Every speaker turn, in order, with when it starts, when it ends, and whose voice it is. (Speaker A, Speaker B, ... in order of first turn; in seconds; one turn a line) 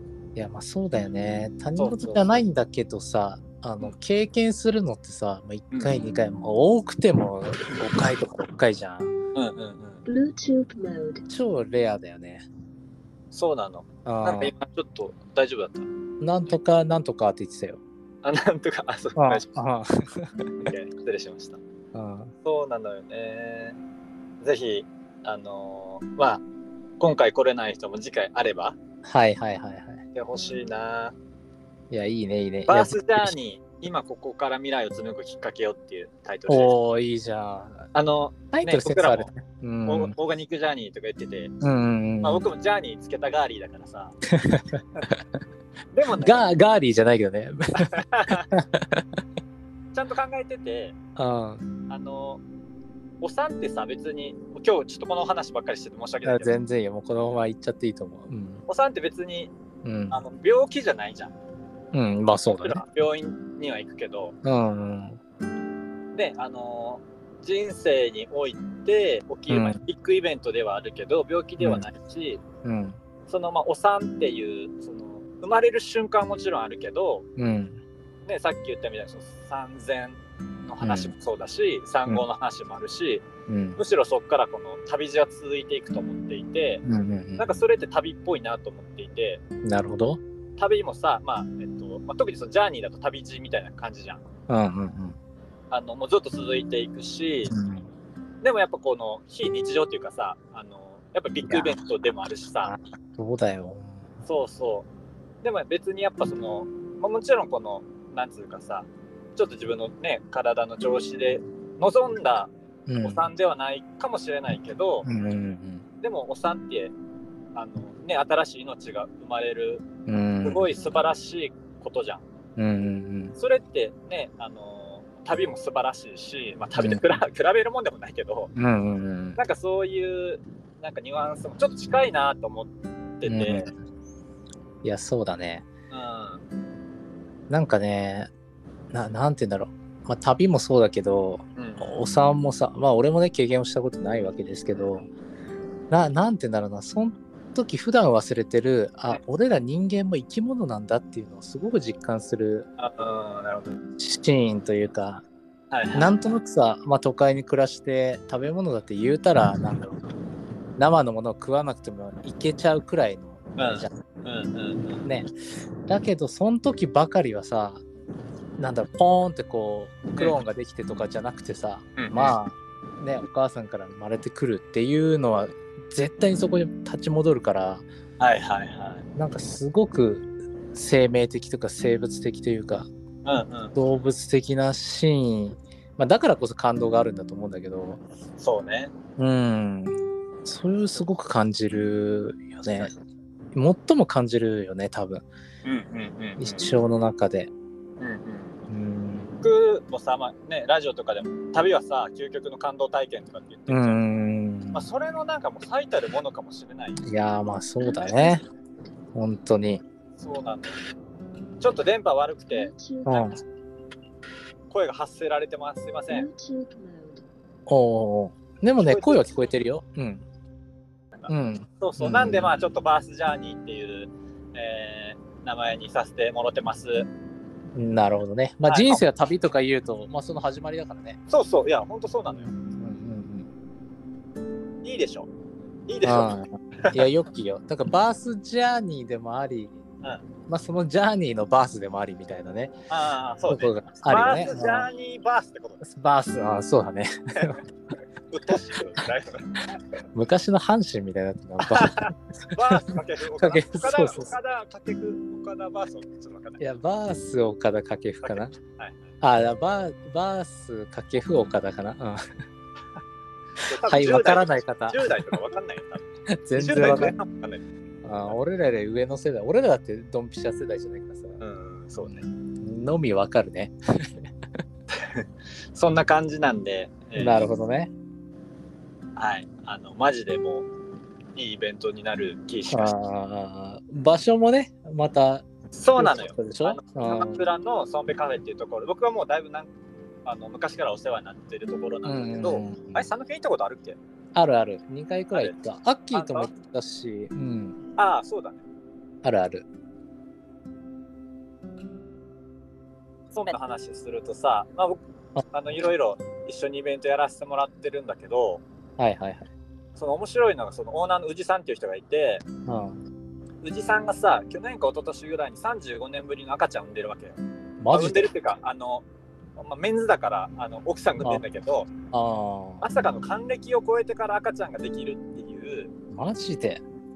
Speaker A: 0.3-9.1
Speaker B: 1.8-2.4
Speaker B: 5.7-6.0
Speaker B: 9.3-10.0
Speaker C: 10.1-11.2
Speaker A: 11.3-12.4
Speaker B: 13.3-15.9
Speaker A: 14.0-14.5
Speaker A: 16.2-17.8
Speaker B: 18.2-19.5
Speaker A: 19.2-20.5
Speaker B: 20.6-21.6
Speaker A: 21.9-22.3
Speaker B: 22.4-23.8
Speaker B: 24.4-26.4
Speaker B: 27.0-28.8
Speaker A: 29.0-30.0
Speaker B: 30.1-31.1
Speaker A: 31.9-33.3
Speaker B: 32.7-36.7
Speaker A: 36.5-37.9
Speaker B: 37.9-39.3
Speaker A: 38.5-40.1
Speaker B: 39.9-41.5
Speaker A: 41.6-42.4
Speaker B: 42.2-44.1
Speaker A: 44.3-45.2
Speaker B: 45.9-46.5
Speaker A: 46.2-49.1
Speaker B: 47.7-48.5
Speaker B: 49.9-51.0
Speaker A: 51.1-51.7
Speaker B: 51.9-52.4
Speaker B: 53.2-56.5
Speaker A: 56.2-58.6
Speaker B: 58.7-59.5
Speaker A: 59.8-60.2
Speaker B: 60.1-61.3
Speaker A: 61.9-62.8
Speaker B: 62.6-64.3
Speaker A: 64.4-65.2
Speaker B: 66.1-72.4
Speaker A: 69.5-69.8
Speaker A: 72.6-73.0
Speaker B: 73.3-77.3
Speaker A: 77.4-77.8
Speaker B: 78.2-86.8
Speaker A: 80.8-81.1
Speaker A: 83.5-83.8
Speaker A: 86.8-87.5
Speaker B: 87.4-89.4
Speaker A: 89.6-90.2
Speaker B: 90.6-94.2
Speaker A: 94.5-95.2
Speaker B: 95.7-97.5
Speaker A: 97.5-97.9
Speaker B: 98.4-102.7
Speaker A: 101.5-101.7
Speaker A: 102.6-104.1
Speaker B: 104.2-104.9
Speaker B: 105.4-115.1
Speaker A: 112.9-113.3
Speaker A: 115.0-115.8
Speaker B: 116.0-116.9
Speaker B: 117.5-119.8
Speaker A: 120.1-120.7
Speaker B: 120.4-122.2
Speaker A: 122.6-123.3
Speaker B: 123.4-128.5
Speaker A: 128.5-129.4
Speaker B: 129.3-133.7
Speaker A: 133.2-133.7
Speaker A: 134.8-135.7
Speaker B: 135.9-136.4
Speaker A: 137.5-138.3
Speaker A: 138.9-145.1
Speaker B: 141.6-142.0
Speaker A: 145.9-152.7
Speaker B: 152.8-153.8
Speaker A: 154.0-155.2
Speaker B: 155.7-156.1
Speaker A: 155.9-160.0
Speaker A: 160.8-163.9
Speaker B: 163.6-165.1
Speaker A: 165.0-165.3
Speaker A: 165.9-167.8
Speaker A: 168.6-177.8
Speaker B: 172.0-172.4
Speaker B: 178.2-179.1
Speaker A: 179.2-182.9
Speaker B: 183.2-183.8
Speaker A: 183.7-188.0
Speaker B: 188.4-188.9
Speaker A: 189.2-192.9
Speaker A: 193.5-195.2
Speaker B: 195.6-196.7
Speaker A: 196.4-197.5
Speaker B: 198.0-198.6
Speaker A: 198.7-199.4
Speaker B: 199.4-204.0
Speaker A: 203.7-204.9
Speaker B: 204.7-207.0
Speaker A: 207.0-208.4
Speaker C: 207.8-208.4
Speaker A: 209.1-209.8
Speaker B: 210.2-210.7
Speaker B: 211.6-212.7
Speaker C: 212.5-213.4
Speaker A: 213.1-213.4
Speaker B: 214.7-216.2
Speaker C: 216.1-217.2
Speaker A: 217.7-220.2
Speaker B: 218.8-219.3
Speaker B: 221.2-227.1
Speaker A: 221.3-222.5
Speaker A: 227.7-231.2
Speaker B: 228.6-229.0
Speaker B: 231.3-232.5
Speaker A: 232.4-233.5
Speaker B: 234.8-235.3
Speaker B: 235.9-237.0
Speaker A: 236.0-239.8
Speaker A: 240.5-242.7
Speaker B: 242.9-245.8
Speaker A: 243.5-244.9
Speaker A: 245.8-247.6
Speaker B: 248.3-250.0
Speaker A: 250.1-252.8
Speaker B: 251.6-256.6
Speaker A: 253.4-254.3
Speaker A: 256.6-258.5
Speaker B: 258.2-259.1
Speaker A: 259.2-262.2
Speaker B: 263.7-267.6
Speaker A: 263.9-265.1
Speaker A: 266.3-267.1
Speaker A: 268.0-271.4
Speaker B: 271.4-272.2
Speaker A: 272.1-274.3
Speaker B: 274.9-277.5
Speaker A: 277.1-277.9
Speaker B: 279.2-280.7
Speaker B: 281.3-282.9
Speaker A: 282.7-287.4
Speaker B: 285.7-289.7
Speaker B: 290.2-294.0
Speaker A: 292.0-293.1
Speaker A: 294.3-297.8
Speaker B: 295.3-295.6
Speaker B: 296.1-296.5
Speaker B: 298.0-298.6
Speaker A: 299.2-299.7
Speaker B: 303.3-308.6
Speaker A: 309.0-309.5
Speaker B: 309.9-312.4
Speaker A: 312.6-313.0
Speaker B: 313.6-317.4
Speaker A: 317.8-318.3
Speaker B: 317.9-319.1
Speaker B: 319.6-321.9
Speaker A: 322.1-322.8
Speaker B: 322.8-325.9
Speaker A: 326.1-326.8